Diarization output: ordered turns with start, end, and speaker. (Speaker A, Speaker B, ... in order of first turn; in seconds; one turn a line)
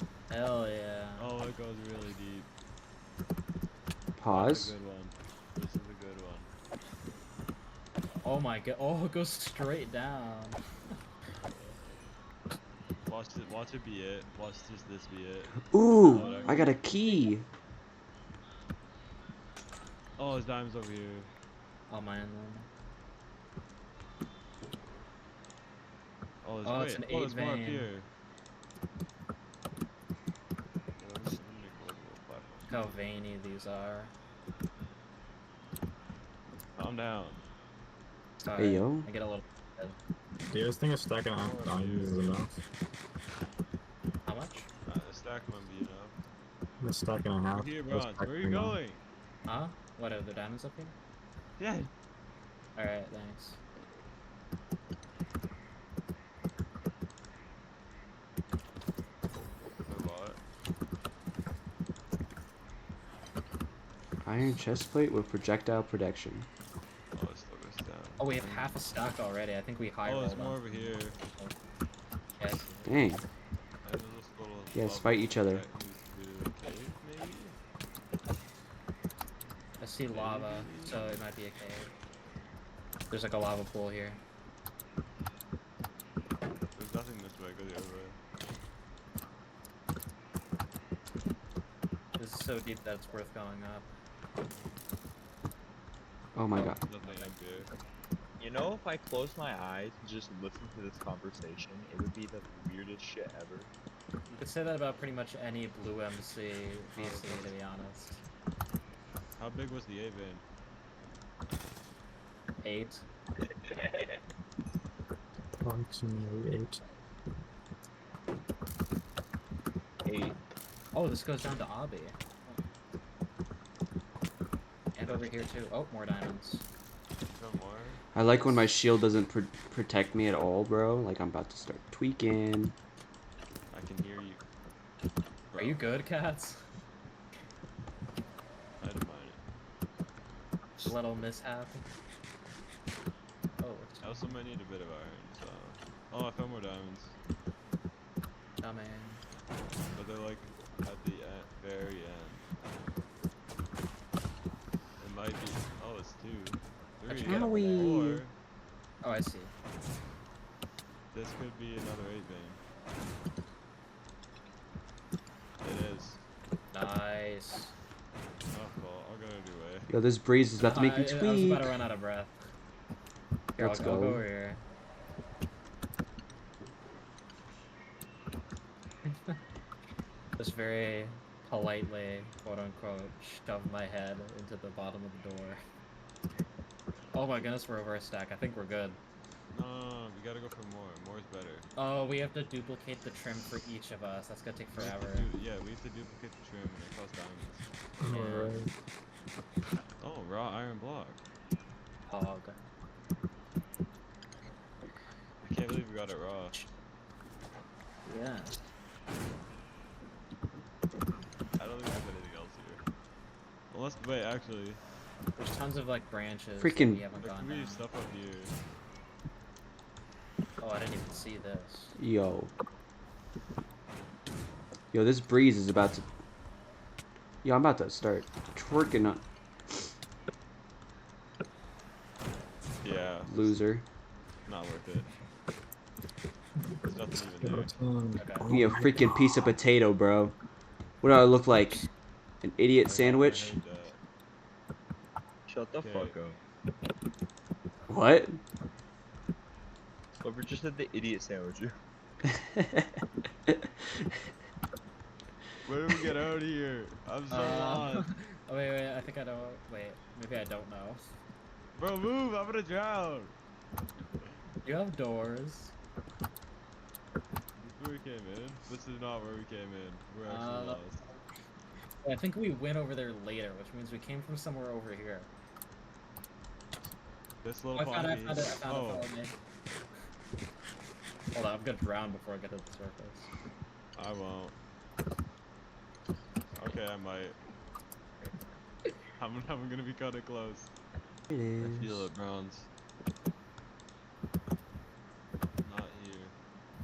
Speaker A: 0.3-1.3
Speaker B: 1.2-2.5
Speaker C: 4.2-4.8
Speaker B: 4.3-6.5
Speaker A: 8.2-10.6
Speaker B: 13.1-16.7
Speaker C: 15.7-17.4
Speaker A: 16.0-16.7
Speaker B: 20.2-21.3
Speaker A: 21.9-22.7
Speaker B: 26.4-28.1
Speaker A: 26.6-27.9
Speaker B: 31.0-32.7
Speaker A: 32.7-34.1
Speaker B: 36.8-37.4
Speaker A: 38.4-40.0
Speaker C: 38.6-39.1
Speaker D: 40.5-42.5
Speaker B: 41.4-42.4
Speaker A: 44.2-44.7
Speaker B: 44.8-46.2
Speaker D: 46.8-48.8
Speaker B: 47.5-49.0
Speaker A: 49.5-50.9
Speaker B: 51.6-51.9
Speaker A: 52.8-53.6
Speaker B: 59.8-60.4
Speaker C: 64.2-66.5
Speaker B: 67.1-68.8
Speaker A: 68.2-71.5
Speaker B: 70.0-71.2
Speaker A: 72.3-72.9
Speaker C: 72.8-73.2
Speaker B: 73.8-77.6
Speaker C: 74.7-75.6
Speaker A: 79.8-81.9
Speaker B: 80.1-81.2
Speaker A: 83.1-84.2
Speaker B: 86.7-88.2
Speaker A: 92.2-93.9
Speaker C: 96.3-96.8
Speaker A: 96.5-97.3
Speaker B: 96.8-97.7
Speaker E: 98.4-103.7
Speaker A: 104.4-108.2
Speaker B: 107.0-107.6
Speaker B: 109.4-110.4
Speaker A: 112.6-113.0
Speaker E: 113.7-114.1
Speaker D: 115.6-116.8
Speaker E: 120.0-120.3
Speaker A: 120.9-122.6
Speaker A: 124.9-126.6
Speaker B: 125.0-125.4
Speaker B: 127.3-128.0
Speaker C: 128.1-132.7
Speaker B: 133.7-134.4
Speaker B: 135.5-136.0
Speaker A: 135.6-136.6
Speaker B: 138.8-139.4
Speaker A: 140.8-141.8
Speaker A: 143.6-144.3
Speaker B: 144.0-147.2
Speaker A: 148.6-149.2
Speaker B: 149.9-152.9
Speaker B: 155.0-158.3
Speaker A: 157.1-158.0
Speaker C: 157.2-158.2
Speaker A: 159.0-159.5
Speaker B: 161.1-162.6
Speaker B: 165.6-166.2
Speaker A: 166.7-167.7
Speaker B: 168.5-169.9
Speaker C: 169.9-171.8
Speaker A: 170.6-172.4
Speaker C: 173.6-174.3
Speaker A: 173.6-174.6
Speaker A: 179.0-179.4
Speaker A: 180.4-185.6
Speaker A: 187.1-189.0
Speaker B: 189.5-191.7
Speaker A: 191.8-195.3
Speaker B: 194.7-197.7
Speaker D: 198.0-198.7
Speaker A: 198.1-198.6
Speaker B: 200.0-201.2
Speaker A: 202.1-202.5
Speaker B: 205.4-206.6
Speaker A: 208.1-208.7
Speaker B: 211.6-212.8
Speaker B: 213.7-214.8
Speaker A: 215.4-217.8
Speaker C: 216.6-217.0
Speaker B: 217.2-218.5
Speaker A: 220.6-221.9
Speaker C: 222.0-222.5
Speaker C: 224.9-226.0
Speaker C: 227.4-229.2
Speaker B: 232.8-233.6
Speaker C: 233.3-233.8
Speaker B: 234.4-235.2
Speaker D: 236.8-239.2
Speaker B: 236.8-237.8
Speaker A: 238.2-238.5
Speaker C: 238.4-240.3
Speaker C: 241.0-241.8
Speaker C: 242.4-243.6
Speaker B: 242.8-244.0
Speaker E: 245.5-246.4
Speaker B: 245.8-246.2
Speaker C: 247.9-248.4
Speaker E: 250.2-251.7
Speaker C: 252.4-253.5
Speaker B: 255.6-258.1
Speaker A: 257.3-261.0
Speaker B: 261.7-263.3
Speaker A: 264.6-265.7
Speaker B: 267.6-271.1
Speaker A: 270.2-270.9
Speaker A: 272.0-275.3
Speaker B: 277.4-279.1
Speaker A: 277.7-279.3
Speaker A: 281.3-283.3
Speaker B: 283.9-284.6
Speaker B: 286.6-287.4
Speaker B: 289.2-290.7
Speaker C: 291.3-292.1
Speaker B: 291.6-292.7
Speaker B: 295.6-296.3